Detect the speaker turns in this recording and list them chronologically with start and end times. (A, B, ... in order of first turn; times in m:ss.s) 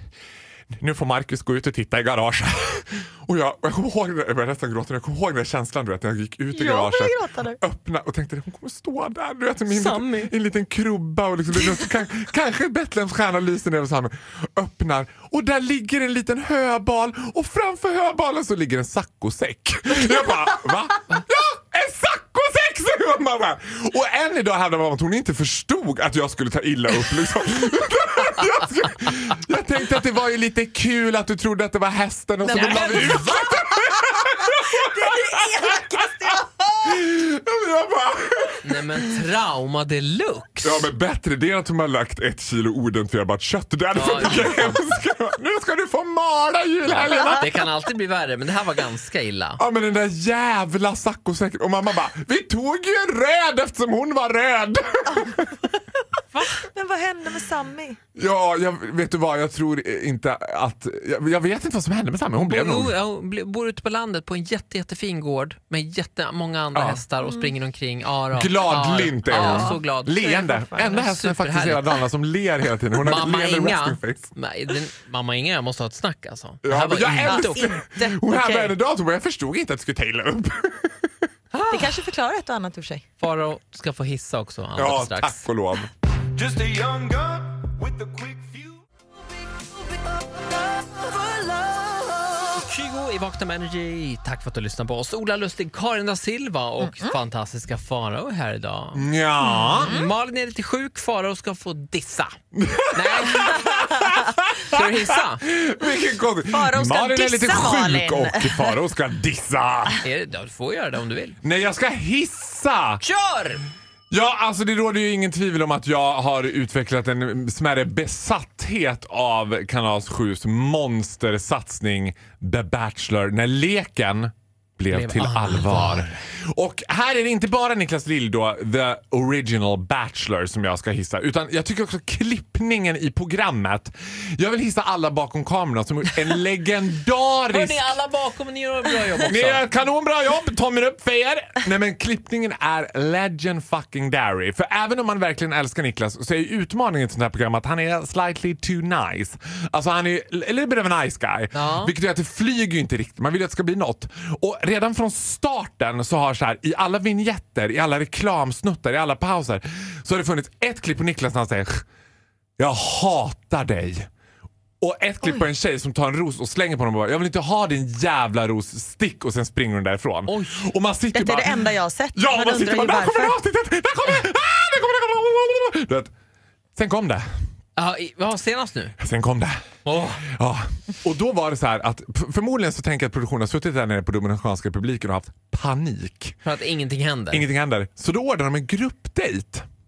0:00.8-0:36.3 A
0:06.5-0:07.6 B
0:09.7-0:10.3 C
0:32.4-0:33.5 C
0:32.6-0:33.5 B
0:34.8-0:36.8 B
0:36.8-0:39.0 A
0:38.6-0:40.9 C
0:40.6-0:47.5 A
0:43.9-0:44.8 C
0:46.8-0:49.6 C
0:49.6-0:55.5 A
0:56.3-0:58.0 B
0:58.2-1:02.9 A
1:02.4-1:11.9 C
1:06.7-1:07.0 A
1:07.2-1:07.5 B
1:08.3-1:14.3 A
1:09.3-1:09.8 B
1:10.4-1:11.0 B
1:13.0-1:17.7 C
1:16.6-1:21.1 A
1:17.1-1:18.7 B
1:21.5-1:22.1 C
1:21.7-1:23.0 B
1:23.2-1:25.4 C
1:24.8-1:25.9 A
1:26.4-1:28.7 D
1:32.3-1:39.1 C
1:36.8-1:37.1 B
1:38.9-1:40.0 A
1:39.4-1:40.1 B
1:39.6-1:42.3 C
1:42.5-1:44.8 A
1:42.9-1:43.7 C
1:44.6-1:45.4 C
1:45.4-1:50.0 A
1:46.5-1:48.8 B
1:50.0-1:51.4 C
1:51.4-1:53.0 A
1:53.0-1:53.6 C
1:54.1-2:17.9 A
2:04.9-2:06.2 C
2:17.5-2:19.6 C
2:19.2-2:41.8 A
2:31.5-2:31.9 C
2:42.6-2:44.1 A
2:44.8-2:56.1 A
2:50.3-2:50.7 C
2:51.1-2:53.4 B
2:56.8-2:57.2 A
2:57.8-2:58.9 C
2:59.0-2:59.6 A
2:59.8-3:00.2 C
3:00.2-3:06.4 A
3:06.4-3:07.4 C
3:07.3-3:09.6 A